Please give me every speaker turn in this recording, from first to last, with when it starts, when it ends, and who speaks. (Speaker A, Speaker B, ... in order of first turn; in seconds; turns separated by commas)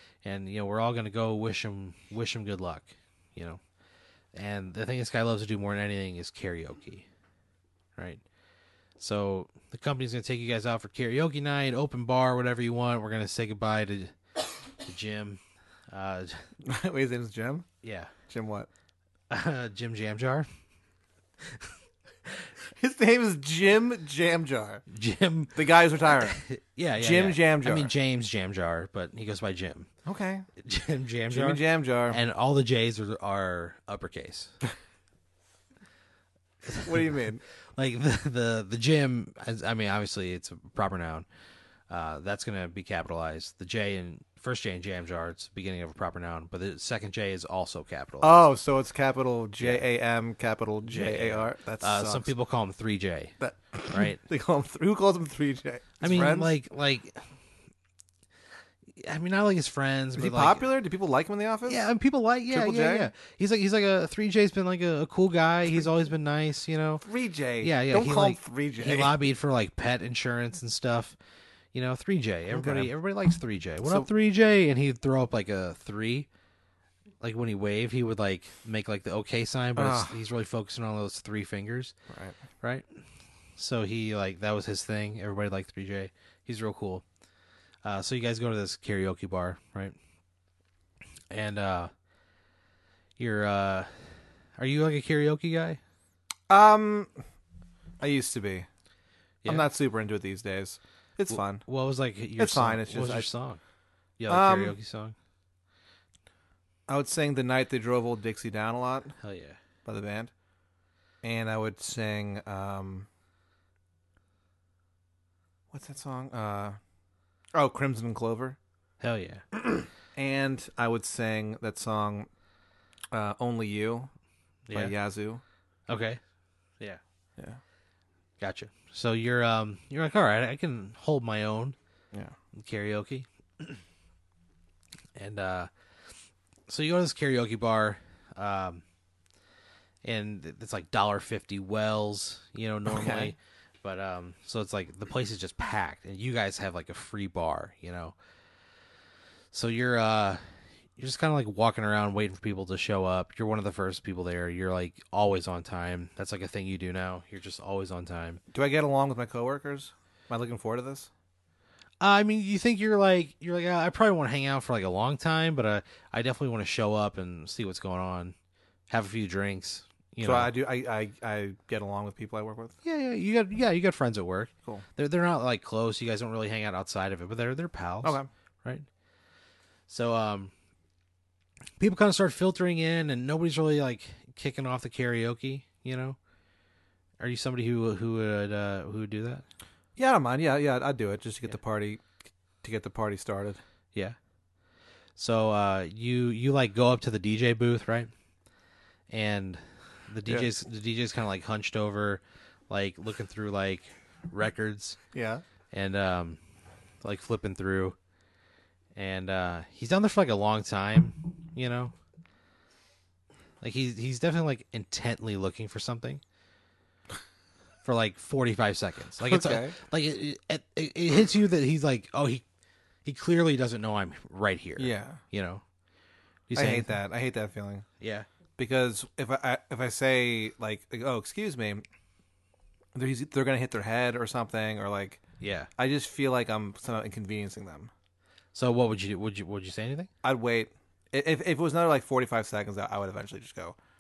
Speaker A: 0.2-3.6, Speaker A: 4.3-7.1, Speaker A: 8.0-8.2, Speaker A: 9.0-14.1, Speaker A: 14.8-15.4, Speaker A: 15.9-16.4, Speaker B: 16.6-17.7, Speaker A: 17.8-18.1, Speaker B: 18.3-18.7, Speaker A: 19.3-20.5, Speaker B: 22.8-24.8, Speaker A: 24.9-25.6, Speaker B: 25.6-26.4, Speaker A: 26.2-29.9, Speaker B: 27.0-27.9, Speaker B: 30.1-30.5, Speaker A: 30.6-34.5, Speaker B: 31.3-32.2, Speaker A: 36.7-37.0, Speaker B: 36.8-37.4, Speaker A: 37.8-41.3, Speaker A: 41.9-48.4, Speaker B: 48.2-52.3, Speaker A: 50.9-53.3, Speaker B: 53.4-56.5, Speaker A: 53.9-54.2, Speaker A: 56.0-57.2, Speaker A: 59.0-60.7, Speaker B: 60.2-61.8, Speaker A: 61.7-67.0, Speaker B: 62.5-63.1, Speaker B: 67.0-69.1, Speaker A: 67.6-71.2, Speaker A: 71.7-76.3, Speaker B: 72.5-72.9, Speaker A: 77.2-82.0, Speaker B: 79.8-80.2, Speaker B: 82.1-82.4, Speaker A: 83.6-87.0, Speaker A: 87.8-90.0, Speaker A: 91.3-91.9, Speaker A: 93.2-93.9, Speaker A: 94.6-95.8, Speaker B: 96.5-97.1, Speaker B: 98.0-98.7, Speaker B: 99.5-101.6, Speaker A: 101.3-103.6, Speaker B: 102.4-103.3, Speaker A: 104.2-105.2, Speaker B: 104.3-104.8, Speaker B: 106.9-109.2, Speaker A: 109.2-109.6, Speaker B: 109.8-110.3, Speaker B: 111.2-113.1, Speaker B: 115.7-116.8, Speaker B: 117.5-118.6, Speaker A: 119.0-119.5, Speaker B: 120.2-122.3, Speaker B: 123.1-124.1, Speaker A: 124.7-124.9, Speaker B: 124.7-125.4, Speaker A: 125.9-126.2, Speaker A: 128.4-131.8, Speaker A: 132.5-133.8, Speaker A: 135.2-135.7, Speaker A: 136.7-138.8, Speaker A: 140.0-148.2, Speaker B: 142.9-143.3, Speaker A: 149.5-150.4, Speaker A: 151.0-158.4, Speaker B: 158.5-161.1, Speaker A: 162.0-168.3, Speaker A: 168.9-170.5, Speaker B: 170.2-172.8, Speaker A: 172.8-178.9, Speaker B: 178.0-178.3, Speaker A: 179.9-180.5, Speaker A: 181.8-186.2, Speaker A: 187.2-189.4, Speaker B: 190.0-192.0, Speaker B: 192.6-193.6, Speaker A: 195.2-198.1, Speaker A: 199.1-205.0, Speaker B: 205.1-205.4, Speaker A: 205.7-206.4, Speaker A: 207.0-208.0, Speaker A: 209.0-211.9, Speaker A: 213.6-216.2, Speaker A: 217.8-222.4, Speaker B: 219.2-219.8, Speaker A: 223.1-225.6, Speaker B: 224.8-225.2, Speaker A: 226.5-226.9, Speaker B: 226.6-227.9, Speaker A: 228.0-228.3, Speaker B: 228.6-231.8, Speaker B: 232.9-235.2, Speaker A: 235.4-235.7, Speaker B: 235.8-237.9, Speaker A: 238.5-240.1, Speaker B: 240.2-243.8